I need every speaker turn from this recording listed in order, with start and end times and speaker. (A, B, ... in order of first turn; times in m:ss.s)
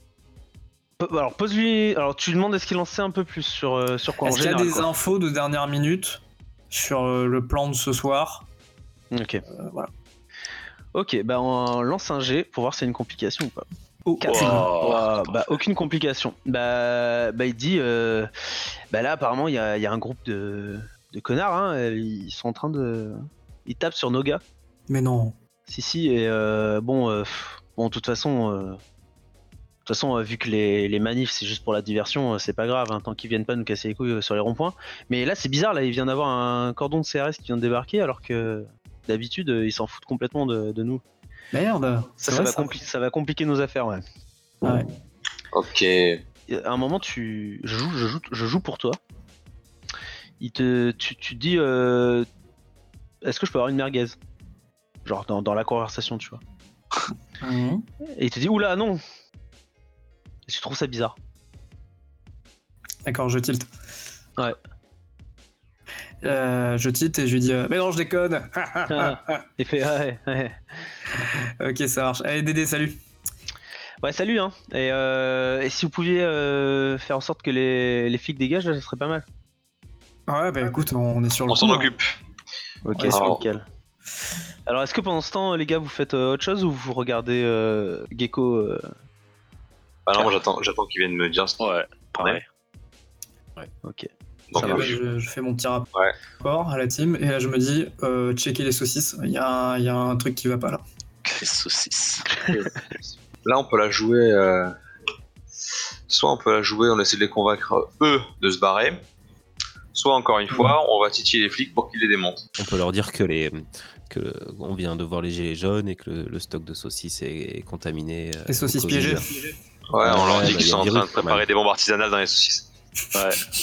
0:01.0-0:04.9 A
0:04.2-0:08.4 B
0:09.1-0:09.4 A
0:09.5-0:09.9 B
0:10.9-0:13.6 A
0:14.0-0:14.7 B
0:14.2-0:18.3 A
0:14.3-0:15.4 C
0:18.9-0:24.4 A
0:24.9-0:25.3 B
0:25.6-0:28.8 A
0:29.8-0:41.0 A
0:41.5-0:42.7 B
0:42.2-0:44.0 A
0:44.6-0:44.9 B
0:45.5-0:46.2 D
0:46.5-0:49.0 A
0:50.4-0:52.3 A
0:53.2-0:54.2 A
0:55.0-0:56.4 A
0:57.4-0:57.8 B
0:58.2-0:59.0 A
1:00.5-1:01.1 A
1:03.0-1:03.7 B
1:06.2-1:09.4 B
1:08.9-1:10.6 A
1:11.2-1:13.0 B
1:14.0-1:19.2 A
1:20.3-1:21.9 B
1:21.5-1:22.1 D
1:22.9-1:23.2 B
1:22.9-1:23.6 A
1:23.1-1:23.4 D
1:24.7-1:28.9 A
1:30.0-1:31.6 D
1:31.6-1:32.4 C
1:33.8-1:34.9 A
1:34.5-1:35.0 D
1:34.6-1:35.9 B
1:36.4-1:40.8 B
1:41.2-1:42.3 C
1:43.4-1:44.7 D
1:46.1-1:49.0 D
1:49.9-1:52.5 D
1:52.6-1:59.3 E
1:58.5-1:59.4 B
1:59.9-2:02.7 D
2:00.0-2:01.4 E
2:03.1-2:03.4 C